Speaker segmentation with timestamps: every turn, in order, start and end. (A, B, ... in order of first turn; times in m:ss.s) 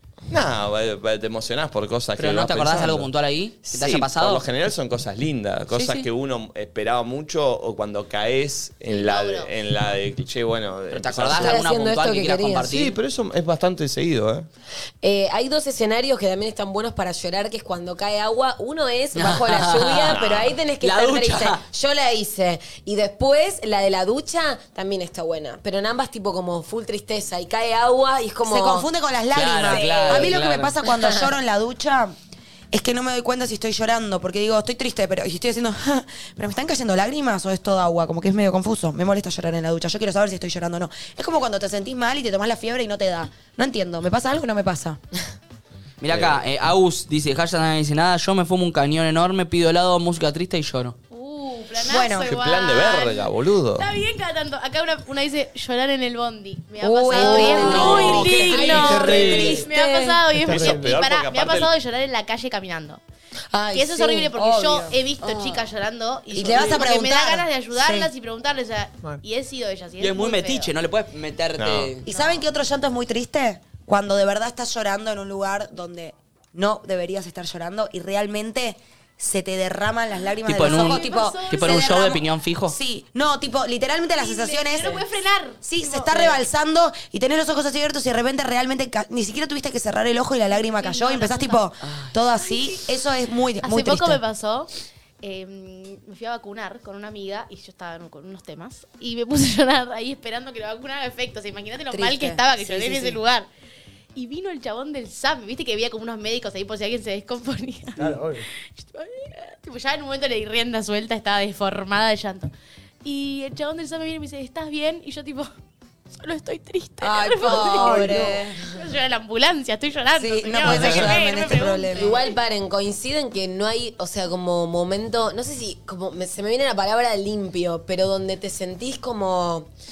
0:00.3-0:03.1 A
0:02.2-0:04.4 B
0:03.7-0:11.6 A
0:05.7-0:06.1 B
0:08.9-0:09.5 C
0:10.9-0:13.0 B
0:11.3-0:12.7 D
0:12.7-0:14.5 A
0:15.0-0:28.9 D
0:19.1-0:20.2 B
0:20.1-0:20.6 A
0:20.8-0:21.6 B
0:28.4-0:32.2 E
0:29.3-0:30.8 B
0:29.7-0:31.3 D
0:32.7-0:45.0 E
0:46.0-0:51.0 B
0:46.1-0:46.4 A
0:51.1-1:03.0 C
0:51.8-0:52.4 E
0:52.1-0:53.9 A
0:56.8-0:58.3 E
0:57.2-1:00.2 D
0:57.2-0:59.6 B
0:58.3-0:59.7 F
1:00.3-1:01.0 F
1:00.4-1:01.7 A
1:03.5-1:04.3 D
1:03.7-1:10.7 C
1:04.4-1:05.6 E
1:06.3-1:08.1 E
1:10.0-1:12.1 B
1:11.6-1:11.9 A
1:12.0-1:25.0 E
1:20.5-1:22.8 B
1:20.6-1:22.2 C
1:24.1-1:26.4 C
1:25.6-1:34.2 E
1:30.6-1:31.6 C
1:31.8-1:32.1 B
1:33.6-1:34.7 C
1:35.2-1:43.5 C
1:41.9-1:43.2 E
1:44.2-1:48.2 C
1:48.0-1:48.5 F
1:48.7-1:52.5 C
1:53.0-1:55.5 C
1:56.1-2:02.4 C
1:57.0-1:58.6 E
1:57.5-1:58.2 F
2:00.2-2:02.2 E
2:00.7-2:00.9 F
2:01.9-2:09.7 D